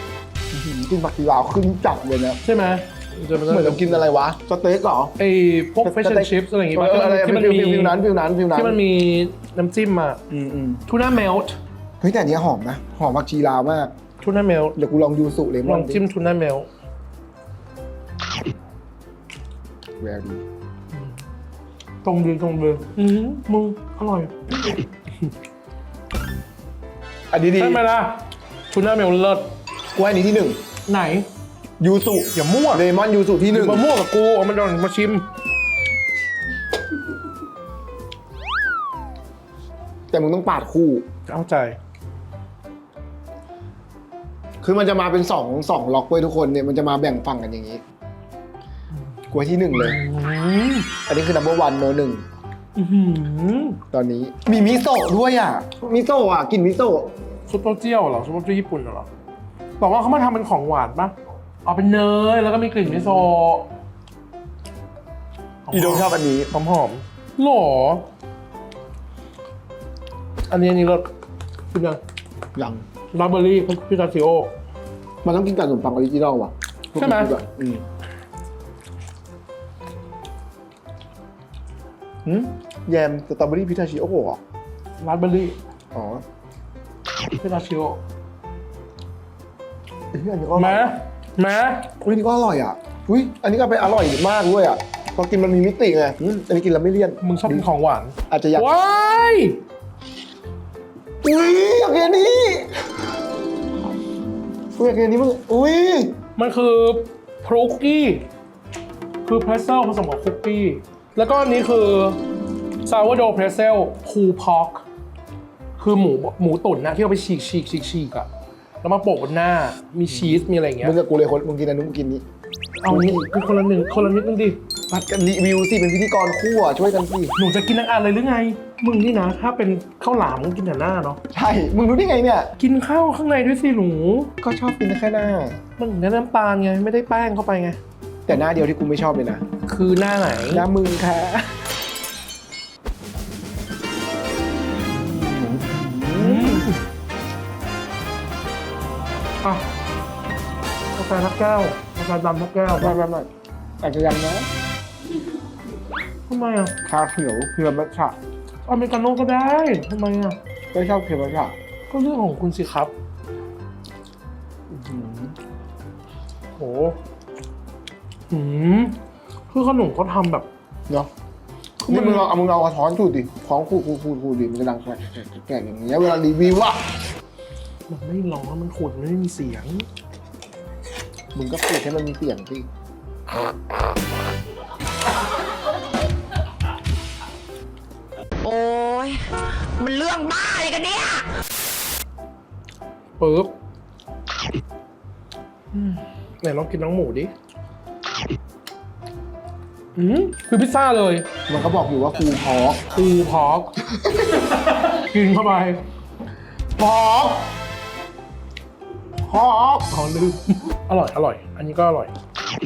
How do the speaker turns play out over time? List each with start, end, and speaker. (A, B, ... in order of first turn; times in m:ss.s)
0:00.5-0:02.4 A
0:02.4-0:04.0 B
0:03.5-0:05.1 A
0:05.2-0:10.2 B
0:05.8-0:08.8 A
0:10.3-0:10.8 A
0:10.9-0:11.6 B
0:12.0-0:13.9 A
0:14.2-0:14.8 B
0:14.8-0:16.0 A
0:15.6-0:16.7 B
0:20.0-0:20.4 A
0:22.0-0:24.3 B
0:27.3-0:27.8 A
0:27.6-0:29.5 B
0:29.9-0:30.6 A
0:30.8-0:31.3 B
0:31.8-0:33.8 A
0:32.3-0:32.8 B
0:33.5-0:35.2 B
0:40.1-0:41.0 A
0:41.3-0:41.8 B
0:44.6-0:47.8 A
0:49.3-0:50.0 A
0:49.7-0:50.9 B
0:51.1-0:52.2 A
0:52.8-0:53.8 B
0:53.9-0:57.1 A
0:57.5-0:59.1 B
0:59.8-1:03.7 B
1:02.8-1:03.3 A
1:05.6-1:08.0 B
1:05.7-1:06.5 A
1:10.5-1:11.1 B
1:11.7-1:12.0 B
1:12.5-1:12.8 A
1:13.1-1:14.5 B
1:15.2-1:17.8 A
1:17.0-1:17.4 B
1:22.2-1:24.4 A
1:25.0-1:25.6 B
1:25.9-1:26.2 A
1:27.4-1:28.0 B
1:30.1-1:31.0 A
1:30.5-1:31.9 B
1:32.0-1:37.6 A
1:37.2-1:39.6 B
1:38.3-1:38.7 A
1:41.2-1:42.8 A
1:44.8-1:46.1 A
1:46.4-1:48.2 B
1:49.2-1:52.2 B
1:52.8-1:54.8 B
1:55.8-1:58.3 B
1:58.8-2:00.9 B
2:00.1-2:02.2 A
2:02.8-2:04.6 B
2:02.9-2:03.3 A
2:04.9-2:07.3 A
2:07.4-2:11.2 B
2:11.3-2:12.5 A
2:12.6-2:14.3 B
2:14.4-2:15.6 A
2:15.8-2:17.8 B
2:18.2-2:19.4 A
2:19.6-2:20.7 B
2:20.5-2:21.5 A
2:24.9-2:26.7 A
2:26.1-2:26.8 B
2:30.9-2:33.0 B
2:32.8-2:33.3 A
2:33.8-2:34.5 A
2:36.3-2:36.7 B
2:36.8-2:38.2 A
2:38.7-2:40.4 B
2:40.7-2:41.5 A
2:41.9-2:42.9 B
2:44.7-2:45.4 A
2:46.6-2:47.0 B
2:48.3-2:49.0 B
2:49.5-2:50.5 B
2:51.8-2:52.3 B
2:51.9-2:56.9 A
2:57.9-2:59.9 B
3:01.3-3:02.7 A
3:08.4-3:11.3 C
3:13.2-3:13.5 B
3:15.8-3:17.3 B
3:20.0-3:21.3 B
3:21.5-3:22.9 A
3:22.9-3:23.7 B
3:24.5-3:25.8 B
3:26.8-3:27.5 B
3:29.2-3:29.9 A
3:29.9-3:32.1 B